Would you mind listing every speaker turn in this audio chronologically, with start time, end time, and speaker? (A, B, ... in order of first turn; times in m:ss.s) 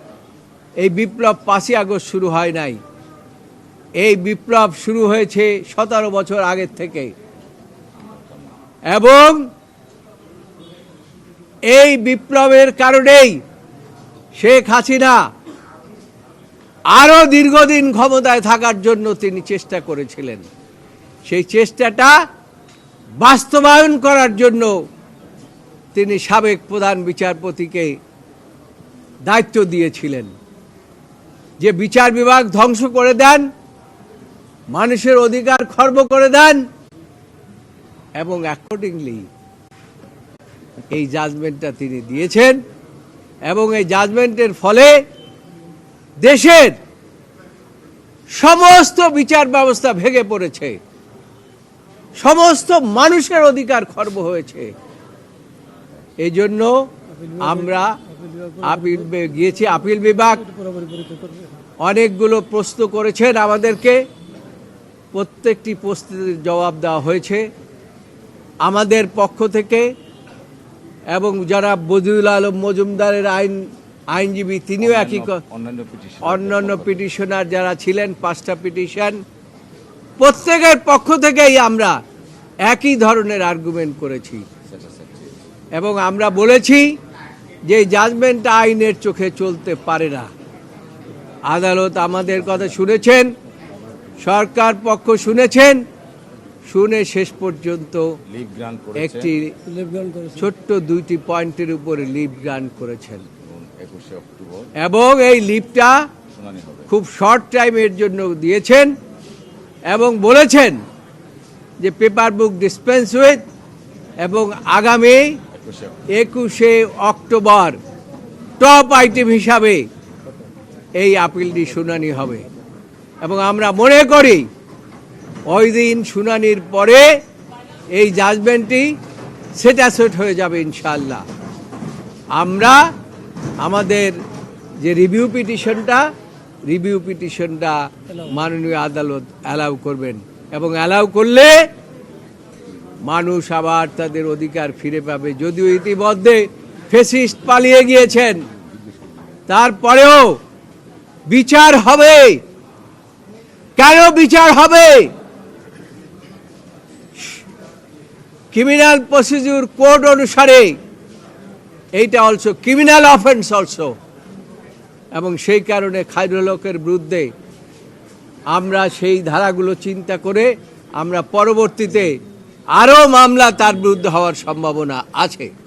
0:00.8-0:02.8 A
0:04.0-0:07.1 A
0:08.9-0:09.5 A
0:11.7-0:13.4 A
0:14.4-0:15.2 A
0:16.9-0:20.5 A
0:21.3-0:22.2 A
0:23.2-0:24.8 A
0:25.9-0:28.0 A
0:29.3-0:30.3 A
0:31.6-0:33.5 A
0:34.7-0:36.7 A
0:38.2-0:39.3 A
0:40.9-0:42.6 A
0:43.5-0:45.0 A
0:46.2-0:46.8 A
0:48.4-0:50.8 A
0:52.2-0:54.7 A
0:56.2-0:56.7 A
0:57.4-0:57.9 A
0:58.5-1:00.5 A
1:01.8-1:04.0 A
1:05.1-1:07.5 A
1:08.6-1:09.9 A
1:11.1-1:15.4 A
1:14.9-1:16.9 B
1:16.2-1:19.2 A
1:20.2-1:22.0 A
1:22.6-1:24.5 A
1:24.8-1:25.4 B
1:25.8-1:27.0 A
1:27.7-1:30.3 A
1:31.5-1:33.3 A
1:34.2-1:35.8 A
1:36.7-1:38.2 A
1:38.3-1:39.3 B
1:39.0-1:43.3 A
1:43.4-1:44.7 B
1:44.8-1:46.1 A
1:46.4-1:46.9 B
1:46.9-1:48.9 A
1:49.9-1:50.8 A
1:51.8-1:53.4 A
1:54.2-1:55.4 A
1:56.1-1:57.8 A
1:58.6-1:59.9 A
2:01.0-2:02.5 A
2:03.2-2:04.5 A
2:05.5-2:07.1 A
2:07.9-2:09.0 A
2:09.6-2:11.2 A
2:12.4-2:12.9 A
2:13.6-2:14.2 A
2:14.8-2:16.1 A
2:16.7-2:21.7 A
2:23.0-2:28.4 A
2:29.5-2:30.4 A
2:31.3-2:32.4 A
2:33.8-2:35.1 A
2:38.5-2:40.8 A
2:42.0-2:44.0 A
2:45.2-2:47.3 A
2:48.5-2:52.2 A
2:52.8-2:55.5 A